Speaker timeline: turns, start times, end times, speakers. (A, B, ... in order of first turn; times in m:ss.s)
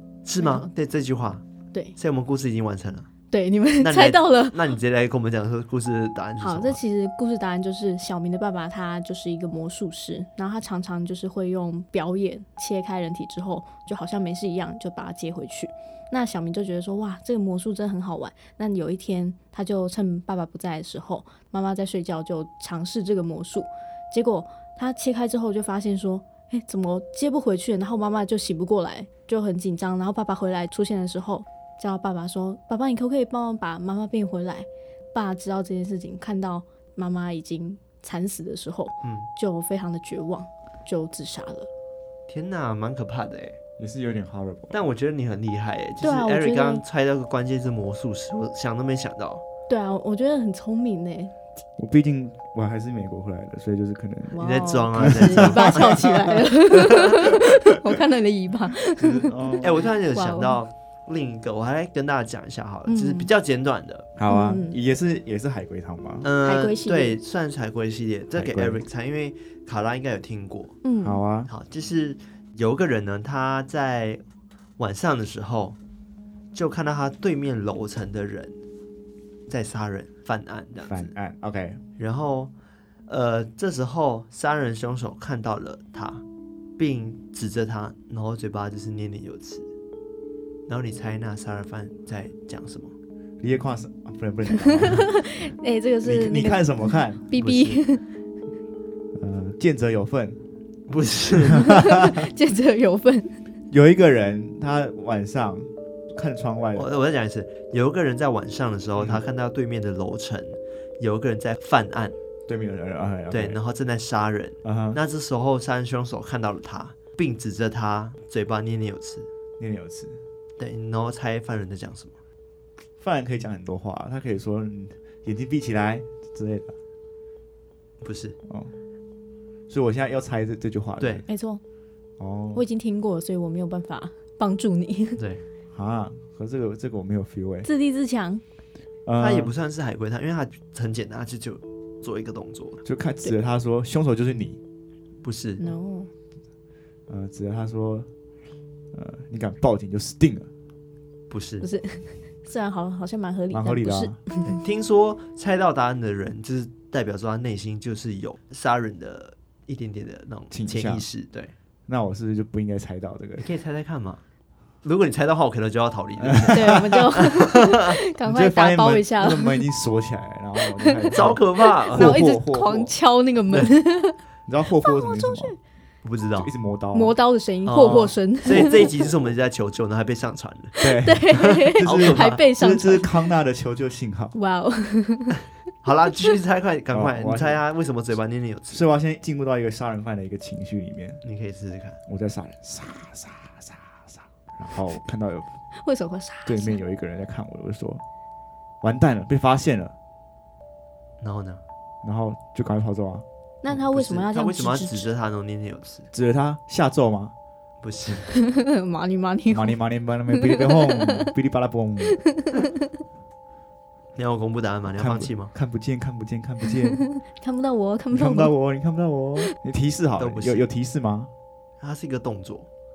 0:00.2-0:01.4 A
0:00.4-0:00.7 B
0:02.0-0:03.1 A
0:03.3-0:04.7 B
0:03.8-0:06.8 A
0:06.4-0:41.7 B
0:39.0-0:39.3 A
0:42.3-0:43.6 A
0:43.8-0:44.8 C
0:44.7-0:49.4 A
0:46.0-0:46.8 B
0:49.7-0:51.3 B
0:51.8-0:56.2 C
0:54.3-1:00.6 B
0:54.4-0:56.0 A
0:59.0-0:59.9 C
0:59.6-1:04.1 A
1:02.9-1:03.3 B
1:04.2-1:06.3 C
1:04.3-1:04.8 B
1:06.2-1:10.7 A
1:06.4-1:07.2 B
1:08.3-1:08.8 C
1:10.8-1:11.2 B
1:11.0-1:11.5 C
1:11.5-1:14.2 A
1:14.8-1:15.8 A
1:16.5-1:18.6 A
1:19.5-1:21.1 A
1:20.9-1:21.8 C
1:22.0-1:22.5 A
1:23.1-1:26.2 A
1:26.8-1:29.7 A
1:30.7-1:32.9 A
1:33.4-1:35.1 C
1:34.5-1:38.0 B
1:36.0-1:37.2 C
1:37.3-1:37.8 A
1:39.1-1:40.4 C
1:40.9-1:41.6 A
1:41.6-1:43.3 B
1:43.7-1:46.9 C
1:46.7-1:52.1 A
1:49.0-1:49.2 C
1:52.5-1:53.6 C
1:53.3-1:59.3 A
1:54.6-1:55.0 C
1:59.6-2:00.2 C
2:00.6-2:02.1 A
2:03.0-2:06.7 C
2:08.0-2:08.4 A
2:08.4-2:08.7 C
2:09.7-2:11.2 C
2:11.0-2:11.2 A
2:11.3-2:11.6 B
2:12.2-2:12.6 C
2:12.5-2:15.2 B
2:15.2-2:15.4 A
2:15.7-2:17.7 C
2:17.6-2:18.4 B
2:19.0-2:19.5 C
2:19.2-2:22.8 A
2:22.8-2:24.6 C
2:25.2-2:25.6 A
2:25.6-2:26.1 B
2:27.1-2:28.1 C
2:28.9-2:30.5 C
2:31.3-2:31.7 A
2:31.6-2:34.6 B
2:33.5-2:34.2 C
2:34.4-2:41.5 A
2:40.5-2:41.1 C
2:41.9-2:43.5 C
2:43.4-2:44.2 A
2:44.8-2:47.8 A
2:46.2-2:47.1 C
2:46.5-2:49.6 B
2:48.2-2:52.9 C
2:50.6-2:54.2 B
2:51.1-2:52.2 A
2:54.5-2:55.6 C
2:54.8-2:55.6 B
2:56.0-2:56.5 A
2:56.4-2:57.1 C
2:56.9-2:59.0 B
2:57.6-3:00.8 A
3:00.8-3:04.3 C
3:00.8-3:03.2 B
3:01.3-3:02.4 A
3:04.3-3:05.4 B
3:05.8-3:08.8 A
3:06.9-3:07.6 C
3:08.7-3:11.2 C
3:11.2-3:12.0 A
3:12.1-3:15.5 C
3:15.7-3:16.8 B
3:16.4-3:18.0 C
3:18.8-3:19.9 C
3:21.2-3:21.6 A
3:22.0-3:23.2 C
3:23.6-3:25.1 B
3:23.7-3:26.1 A
3:26.1-3:27.3 C
3:27.8-3:28.3 A
3:28.2-3:29.8 B
3:29.5-3:32.2 C
3:30.3-3:31.3 B
3:32.4-3:32.7 B
3:34.2-3:35.5 A
3:34.9-3:37.0 C
3:37.0-3:38.5 B
3:38.1-3:41.3 C
3:40.2-3:40.7 A
3:41.8-3:42.7 A